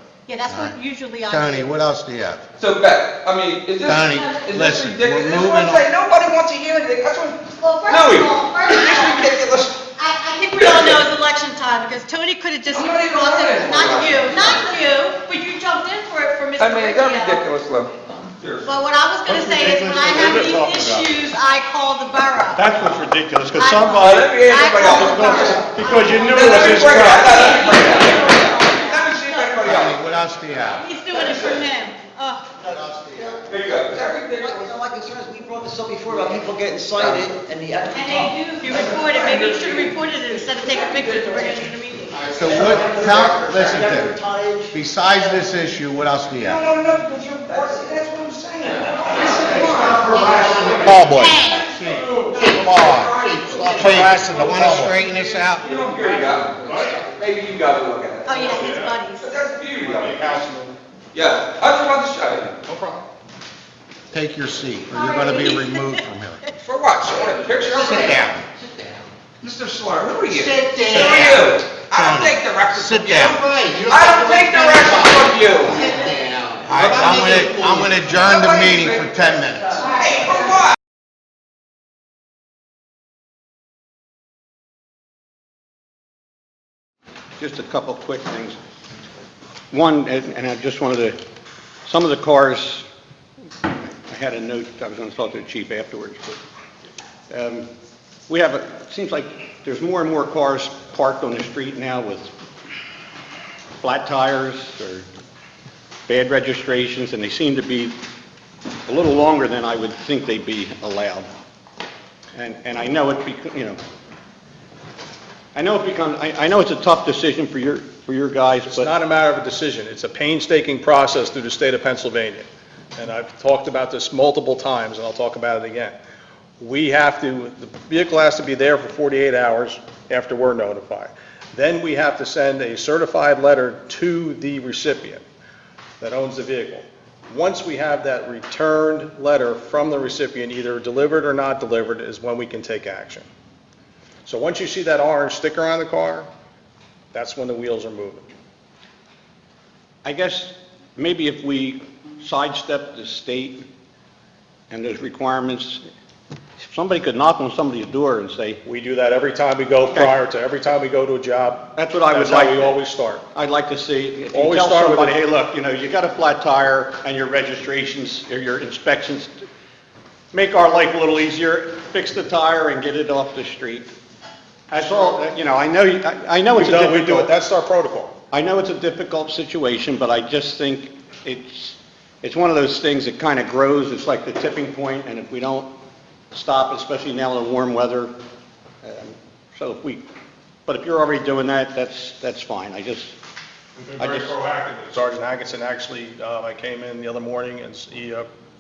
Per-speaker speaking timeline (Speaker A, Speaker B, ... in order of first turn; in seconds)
Speaker A: 0.3-1.7, 4.0-4.4, 7.5-17.4, 18.6-23.0, 23.5-29.6, 30.6-32.5, 37.9-42.3, 50.0-51.7, 58.3-59.3, 64.9-66.5
Speaker B: 0.5-2.4, 3.9-5.9, 29.6-30.9, 32.6-33.4, 42.2-44.2, 44.7-46.6, 50.4-55.6, 64.1-66.5, 67.7-68.5, 70.3-80.0
Speaker C: 2.6-9.8, 10.6-11.1, 12.7-14.8, 16.6-18.7, 24.0-25.7, 26.3-29.9, 31.1-31.7, 33.5-34.8, 38.6-41.7, 42.2-44.0, 46.4-54.1, 55.6-58.6, 59.1-60.2, 61.1-62.6, 66.6-68.2, 69.4-75.9, 76.7-80.8
Speaker D: 19.3-21.1, 22.6-27.2, 87.4-88.6, 89.7-91.2, 91.9-92.9, 93.7-96.2, 97.3-97.7, 98.3-102.3, 103.8-105.1, 106.1-108.0, 108.9-111.3, 112.3-113.8, 115.5-118.9, 150.0-153.7, 154.7-155.8, 156.6-158.6, 161.8-169.3, 170.3-173.9, 174.7-177.3, 178.3-185.7, 186.3-188.1, 188.8-190.1, 190.7-193.1, 194.0-194.3
Speaker E: 20.1-20.9, 26.4-28.2, 49.6-51.1, 53.8-57.0, 58.4-59.0, 59.8-60.8, 62.6-63.0, 118.7-126.0, 126.6-135.2, 136.0-143.3, 144.3-146.3, 147.1-148.3, 158.7-163.3, 164.3-165.2, 174.8-175.1, 176.5-178.2, 193.8-198.3
Speaker F: 34.3-38.4, 42.5-45.2